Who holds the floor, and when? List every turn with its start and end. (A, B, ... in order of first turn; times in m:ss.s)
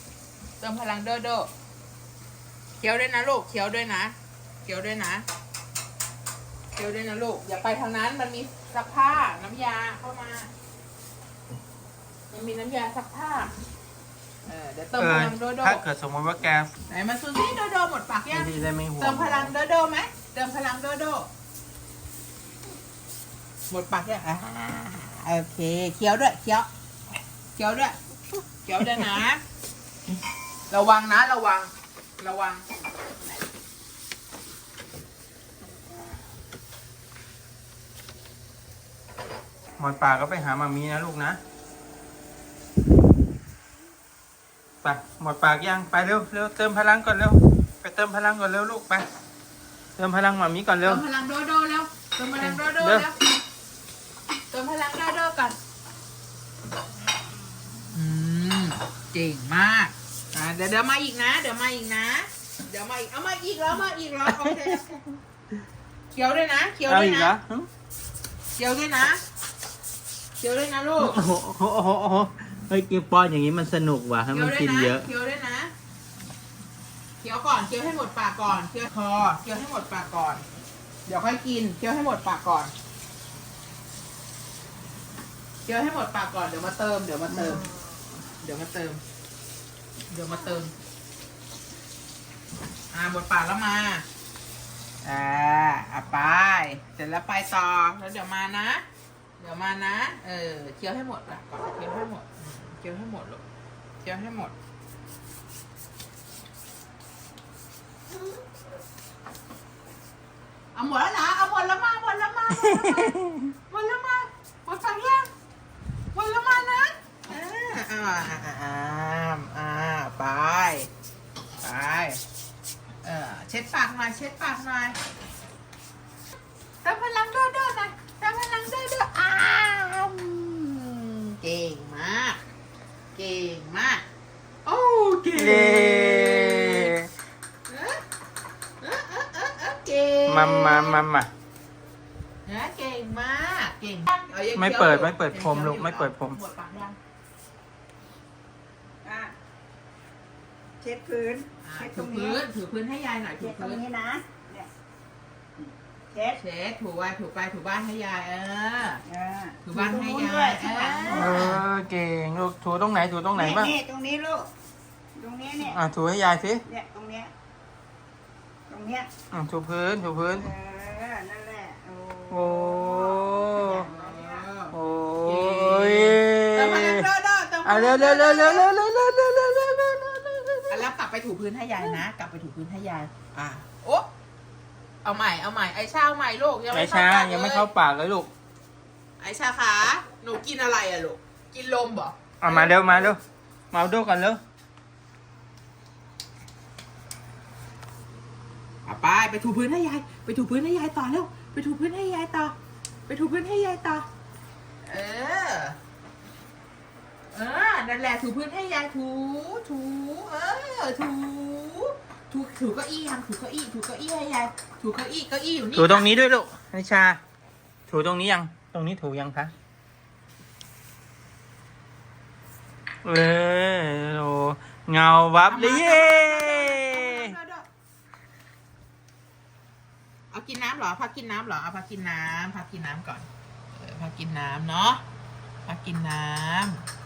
0:00.6-0:01.5 A
0:02.8-0:05.3 A
0:06.8-0:10.5 A
0:12.3-0:13.5 A
0:14.5-0:15.8 A
0:15.0-0:16.8 B
0:16.9-0:21.3 A
0:18.3-0:19.5 B
0:23.7-0:26.7 A
0:27.6-0:28.0 A
0:28.6-0:29.4 A
0:30.7-0:32.7 A
0:39.8-0:41.4 B
0:44.8-0:49.1 B
0:50.0-0:51.0 B
0:50.8-0:53.2 A
0:52.4-0:53.1 B
0:54.5-0:55.6 A
0:57.9-1:05.0 A
1:04.3-1:04.8 B
1:06.1-1:07.3 A
1:06.9-1:07.7 B
1:08.6-1:09.2 A
1:10.4-1:11.2 A
1:11.0-1:15.1 B
1:14.3-1:15.7 A
1:17.2-1:20.4 A
1:21.1-1:22.7 A
1:25.6-1:27.7 A
1:28.4-1:29.0 A
1:30.1-1:30.7 A
1:32.9-1:34.1 A
1:35.0-1:38.8 A
1:39.4-1:43.4 A
1:44.0-1:44.6 A
1:50.7-1:53.2 A
1:52.6-1:53.5 B
1:53.7-1:55.3 A
1:56.1-2:00.9 A
2:01.6-2:02.2 A
2:03.0-2:05.0 A
2:06.8-2:12.4 A
2:13.1-2:14.0 A
2:14.6-2:16.9 A
2:15.4-2:17.1 B
2:17.7-2:18.0 A
2:18.8-2:21.0 A
2:20.3-2:21.3 B
2:22.4-2:27.0 A
2:24.6-2:26.4 B
2:29.0-2:29.3 C
2:30.8-2:32.4 C
2:31.6-2:33.8 A
2:33.4-2:34.7 C
2:35.6-2:36.4 C
2:36.4-2:39.0 A
2:39.0-2:41.5 C
2:39.6-2:41.6 A
2:41.1-2:43.8 B
2:43.3-2:44.5 C
2:45.2-2:45.8 C
2:45.6-2:46.6 B
2:46.6-2:47.3 C
2:48.7-2:49.1 C
2:49.3-2:50.5 B
2:50.3-2:54.4 C
2:52.3-2:53.9 B
2:53.7-2:58.7 A
2:54.7-2:57.1 B
2:57.6-3:00.9 B
3:00.7-3:04.1 A
3:05.0-3:07.7 A
3:06.7-3:08.3 B
3:09.2-3:13.1 A
3:12.4-3:14.4 B
3:18.8-3:22.6 A
3:23.1-3:24.1 A
3:24.8-3:25.8 A
3:27.3-3:36.1 A
3:35.7-3:37.2 B
3:37.9-3:39.5 B
3:43.0-3:47.3 B
3:45.5-3:47.7 A
3:50.3-3:55.0 A
3:55.6-3:56.8 A